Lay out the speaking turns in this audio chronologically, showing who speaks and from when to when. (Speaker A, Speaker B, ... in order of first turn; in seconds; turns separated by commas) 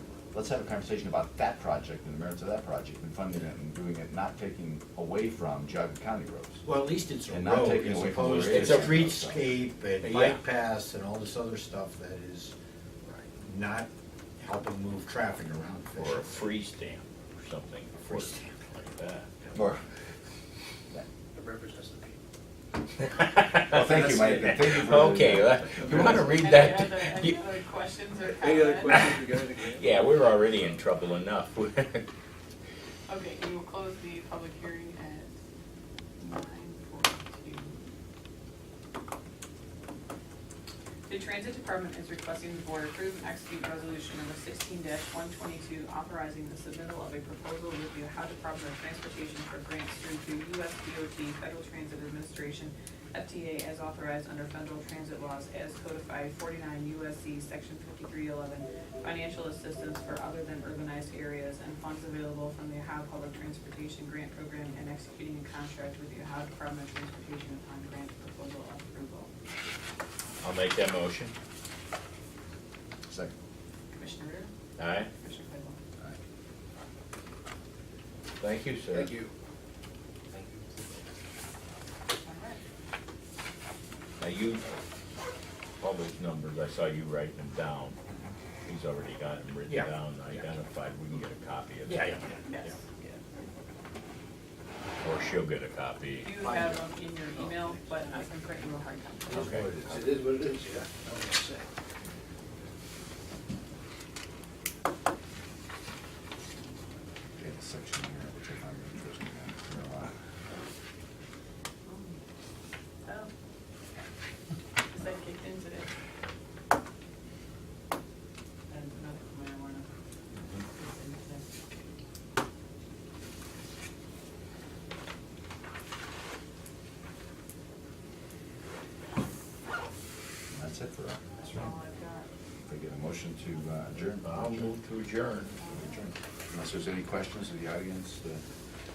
Speaker A: 0.3-6.6, Speaker B: 6.6-12.5, Speaker A: 7.3-9.5, Speaker C: 8.5-9.0, Speaker C: 10.0-10.4, Speaker B: 13.4-16.3, Speaker C: 16.0-19.3, Speaker B: 18.0-18.5, Speaker A: 19.5-19.8, Speaker D: 21.3-22.2, Speaker C: 23.1-27.4, Speaker A: 23.6-26.3, Speaker E: 26.3-29.1, Speaker D: 28.3-30.4, Speaker C: 29.7-32.0, Speaker E: 33.1-35.3, Speaker E: 36.2-37.8, Speaker E: 41.1-69.3, Speaker C: 70.4-71.3, Speaker A: 73.1-73.3, Speaker E: 73.9-74.5, Speaker C: 74.8-75.1, Speaker E: 75.0-75.8, Speaker C: 78.4-79.1, Speaker D: 78.9-79.3, Speaker D: 80.3-80.8, Speaker E: 82.2-82.6, Speaker C: 84.2-84.8, Speaker C: 85.8-88.0, Speaker C: 88.6-92.4, Speaker B: 91.9-92.3, Speaker E: 92.4-92.8, Speaker C: 95.0-96.3, Speaker E: 96.2-99.5, Speaker B: 99.3-100.0, Speaker A: 99.3-100.1, Speaker D: 100.0-101.2, Speaker B: 100.9-101.6, Speaker A: 107.4-110.2, Speaker E: 111.8-112.1, Speaker E: 113.0-113.3, Speaker E: 114.9-115.9, Speaker E: 118.7-119.9, Speaker E: 120.6-121.5, Speaker A: 130.5-131.2, Speaker E: 131.4-132.3, Speaker A: 132.6-134.7, Speaker C: 134.2-135.6, Speaker E: 135.6-136.1, Speaker A: 135.7-138.4